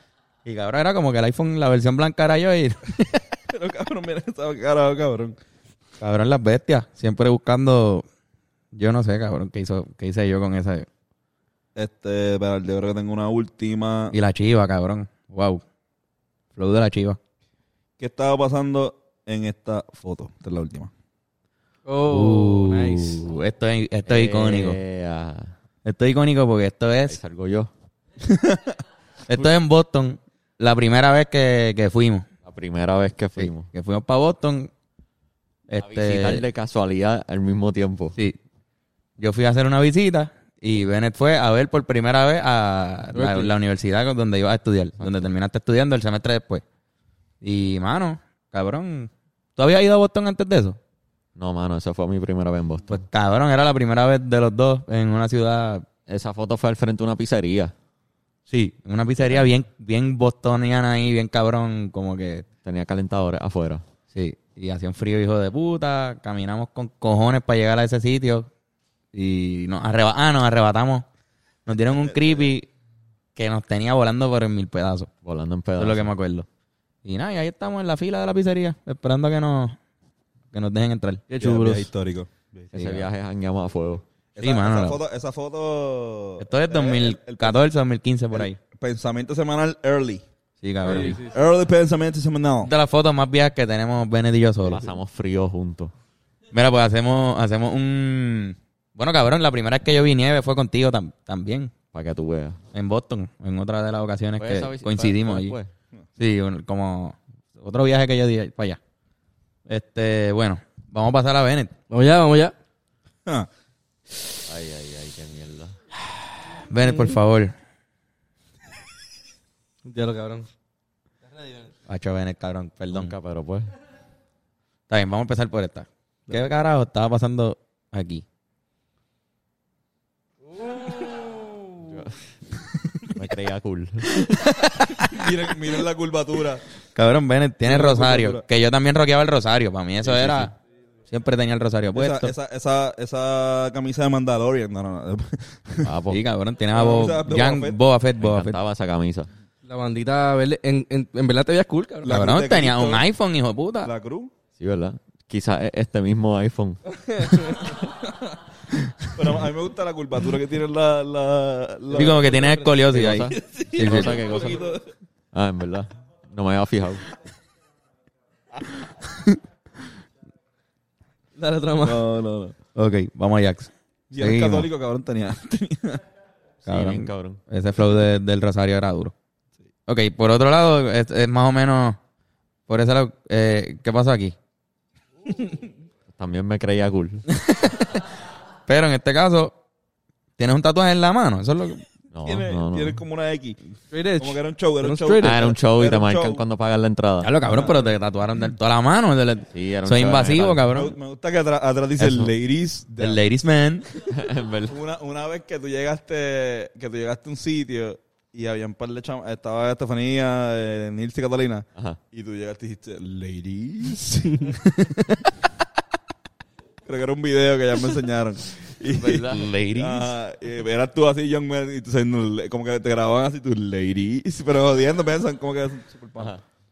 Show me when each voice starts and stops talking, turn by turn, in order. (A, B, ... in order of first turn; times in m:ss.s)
0:00.4-0:03.2 A
0:03.5-0:05.4 B
0:06.0-0:08.0 A
0:08.7-0:10.9 A
0:11.8-0:14.1 B
0:14.1-0:15.6 A
0:16.5-0:17.2 A
0:18.0-0:20.9 B
0:21.8-0:23.2 C
0:22.1-0:24.8 A
0:24.0-0:25.5 D
0:25.8-0:27.2 A
0:27.0-0:27.7 D
0:28.3-0:28.8 B
0:29.3-0:32.2 A
0:32.4-0:33.7 D
0:33.4-0:34.7 A
0:35.7-0:36.4 A
0:35.8-0:38.1 D
0:39.2-0:46.6 A
0:43.1-0:43.5 C
0:45.0-0:45.3 D
0:47.4-0:50.8 A
0:51.4-0:53.0 D
0:52.9-0:55.8 A
0:56.1-0:57.7 D
0:58.5-1:02.4 A
1:02.6-1:03.8 D
1:04.1-1:08.5 A
1:09.1-1:11.0 A
1:11.6-1:12.6 A
1:11.9-1:12.5 B
1:13.4-1:15.1 A
1:15.2-1:16.1 D
1:15.8-1:16.5 A
1:17.0-1:19.8 A
1:20.5-1:21.2 A
1:21.3-1:21.9 C
1:21.4-1:22.7 B
1:22.7-1:24.0 D
1:22.7-1:23.1 A
1:24.4-1:27.6 B
1:24.4-1:25.0 A
1:26.4-1:28.6 A
1:28.3-1:30.2 B
1:30.6-1:31.2 A
1:30.8-1:31.3 C
1:30.9-1:32.7 B
1:32.6-1:34.9 A
1:34.6-1:35.9 D
1:36.5-1:41.7 A
1:41.9-1:42.6 D
1:42.7-1:45.6 A
1:44.4-1:45.7 D
1:46.2-1:48.8 A
1:49.7-1:51.7 A
1:51.9-1:52.5 C
1:54.4-1:55.8 D
1:56.7-1:57.5 A
1:59.8-2:00.5 C
2:01.9-2:03.1 A
2:02.9-2:03.7 D
2:04.9-2:08.2 A
2:10.5-2:11.8 C
2:11.8-2:12.2 D
2:13.1-2:14.2 D
2:14.2-2:15.3 A
2:15.0-2:16.6 B
2:16.9-2:20.5 A
2:17.6-2:18.4 B
2:20.0-2:20.5 D
2:21.1-2:22.3 A
2:21.9-2:25.9 B
2:25.8-2:26.2 D
2:26.1-2:28.6 A
2:26.7-2:27.8 B
2:28.2-2:29.3 D
2:29.6-2:32.1 C
2:32.0-2:33.0 B
2:32.1-2:33.9 A
2:33.8-2:34.3 B
2:34.6-2:36.8 D
2:36.9-2:37.7 C
2:39.1-2:42.4 B
2:41.9-2:44.5 A
2:41.9-2:42.7 C
2:42.9-2:44.6 D
2:43.4-2:44.8 B
2:45.3-2:47.0 D
2:51.4-2:52.0 C
2:51.8-2:52.5 B
2:52.8-2:54.7 A
2:54.1-2:56.0 B
2:56.6-2:57.4 D
2:56.6-2:59.1 A
2:59.9-3:02.0 A
3:02.7-3:04.3 A
3:06.1-3:07.2 D
3:07.3-3:08.0 A
3:08.7-3:09.5 A
3:10.4-3:11.8 A
3:12.1-3:13.0 D
3:12.2-3:13.6 B
3:13.9-3:15.4 C
3:14.2-3:16.4 B
3:15.2-3:17.3 D
3:17.2-3:21.0 A
3:17.5-3:17.9 B
3:19.5-3:20.6 D
3:20.7-3:23.2 B
3:22.0-3:22.3 D
3:23.0-3:23.8 A
3:24.0-3:24.8 D
3:24.6-3:34.9 B
3:36.8-3:46.3 B
3:38.9-3:39.5 D
3:39.3-3:40.1 A
3:46.2-3:46.4 D